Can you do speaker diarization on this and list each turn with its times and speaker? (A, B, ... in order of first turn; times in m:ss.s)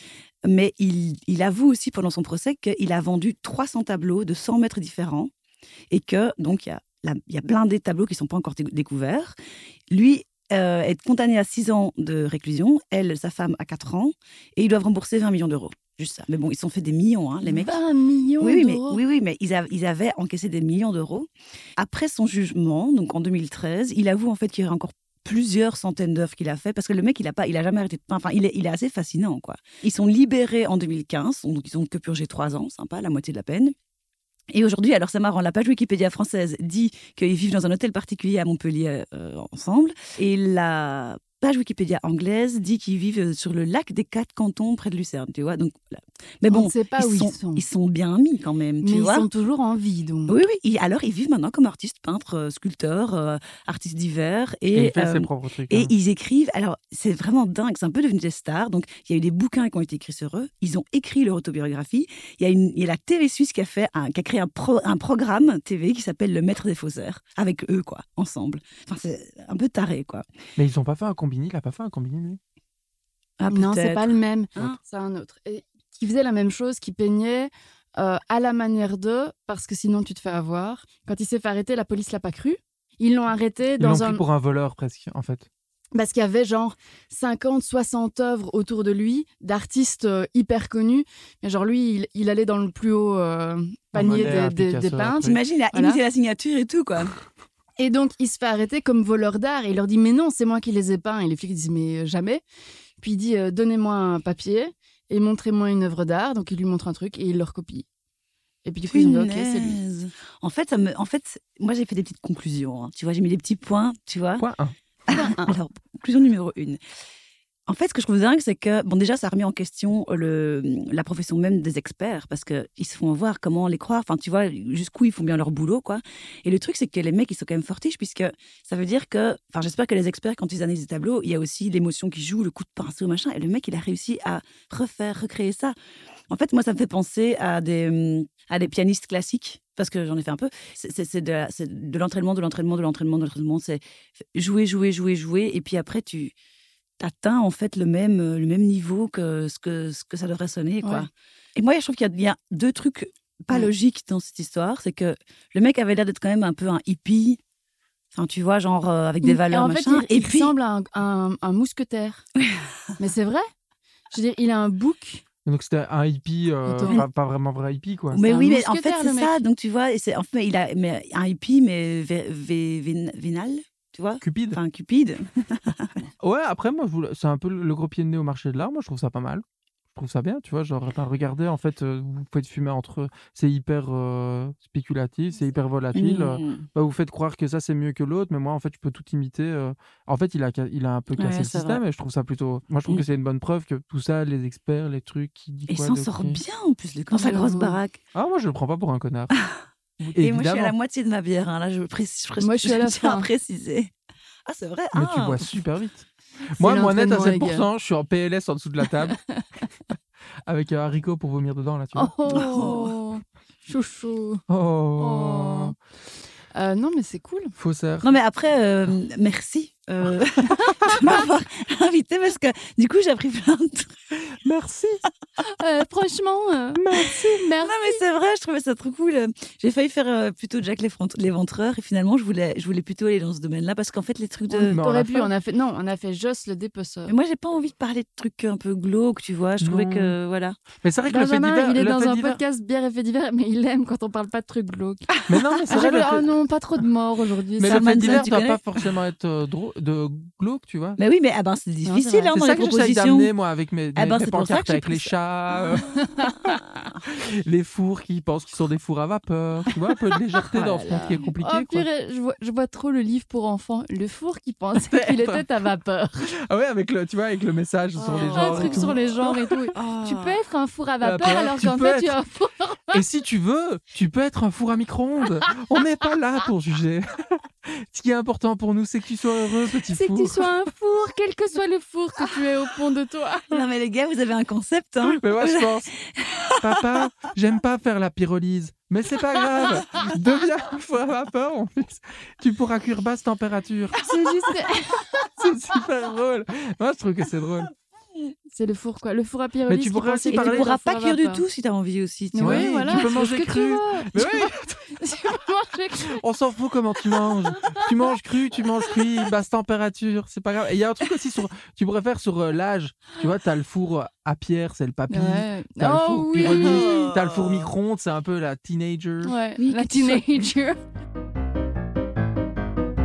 0:00.4-0:05.3 A
0:05.9-0:09.4 A
0:09.9-0:17.8 A
0:17.4-0:19.0 B
0:18.4-0:33.8 A
0:34.5-0:49.3 A
0:46.5-0:47.6 B
0:48.8-0:50.4 B
0:50.3-1:10.2 A
0:54.7-0:55.9 C
1:10.6-1:12.4 C
1:13.4-1:14.8 A
1:13.5-1:24.2 B
1:23.8-1:25.5 C
1:26.0-1:36.0 B
1:33.9-1:35.4 C
1:35.2-1:37.2 A
1:37.8-1:42.4 B
1:43.0-1:47.9 B
1:48.6-1:49.8 B
1:48.9-1:54.5 A
1:54.4-1:54.7 C
1:55.1-1:56.8 A
1:55.1-1:55.4 B
1:57.7-2:15.8 A
2:16.3-2:23.8 A
2:24.3-2:26.4 A
2:27.0-2:37.4 A
2:30.8-2:31.1 B
2:38.1-2:40.5 A
2:39.2-2:42.2 B
2:43.0-2:43.5 B
2:44.1-2:45.2 B
2:45.4-2:48.2 C
2:46.6-2:47.0 B
2:48.1-2:56.0 A
2:48.2-2:49.4 B
2:54.2-2:54.6 C
2:56.2-3:16.4 C
3:06.0-3:06.7 A
3:11.2-3:11.8 A
3:15.7-3:18.0 A
3:17.1-3:17.8 B
3:18.1-3:19.3 C
3:20.0-3:20.8 C
3:20.2-3:23.9 A
3:22.4-3:23.3 B
3:24.5-3:25.6 A
3:24.9-3:29.2 C
3:26.6-3:27.7 B
3:29.1-3:29.4 B
3:30.5-3:32.8 C
3:32.0-3:34.4 B
3:32.3-3:32.9 A
3:34.5-3:35.8 C
3:35.0-3:35.8 B
3:36.5-3:37.6 B
3:37.6-3:38.1 C
3:38.0-3:44.0 A
3:40.7-3:41.1 C
3:40.9-3:41.2 B
3:44.3-3:45.0 C
3:45.4-3:48.0 B
3:46.8-3:47.5 C
3:47.6-3:54.8 A
3:54.5-3:57.1 B
3:54.7-3:55.3 C
3:57.1-4:00.6 A
3:59.6-4:00.2 C
4:00.8-4:02.4 C
4:01.1-4:05.1 B
4:05.3-4:06.3 C
4:05.3-4:05.6 A
4:05.7-4:08.3 B
4:07.6-4:11.0 C
4:07.6-4:08.6 A
4:11.0-4:13.3 A
4:11.8-4:12.4 B
4:12.3-4:21.9 C
4:14.0-4:15.2 A
4:16.0-4:16.6 B
4:20.4-4:26.3 B
4:24.8-4:25.4 C
4:26.3-4:29.7 C
4:28.0-4:33.0 B
4:28.1-4:29.0 A
4:29.8-4:30.4 A
4:31.0-4:32.2 C
4:32.9-4:40.5 C
4:39.9-4:43.6 B
4:43.5-4:46.8 A
4:45.0-4:45.9 C
4:46.6-4:54.0 C
4:54.0-4:55.3 B
4:55.4-4:57.7 C
4:58.5-5:01.4 B
4:59.7-5:00.7 C
5:00.3-5:03.1 A
5:02.3-5:06.2 B
5:02.4-5:04.9 C
5:06.0-5:19.3 C
5:07.5-5:08.1 B
5:15.1-5:17.1 B
5:16.4-5:17.7 A
5:19.2-5:20.8 B
5:19.6-5:20.4 A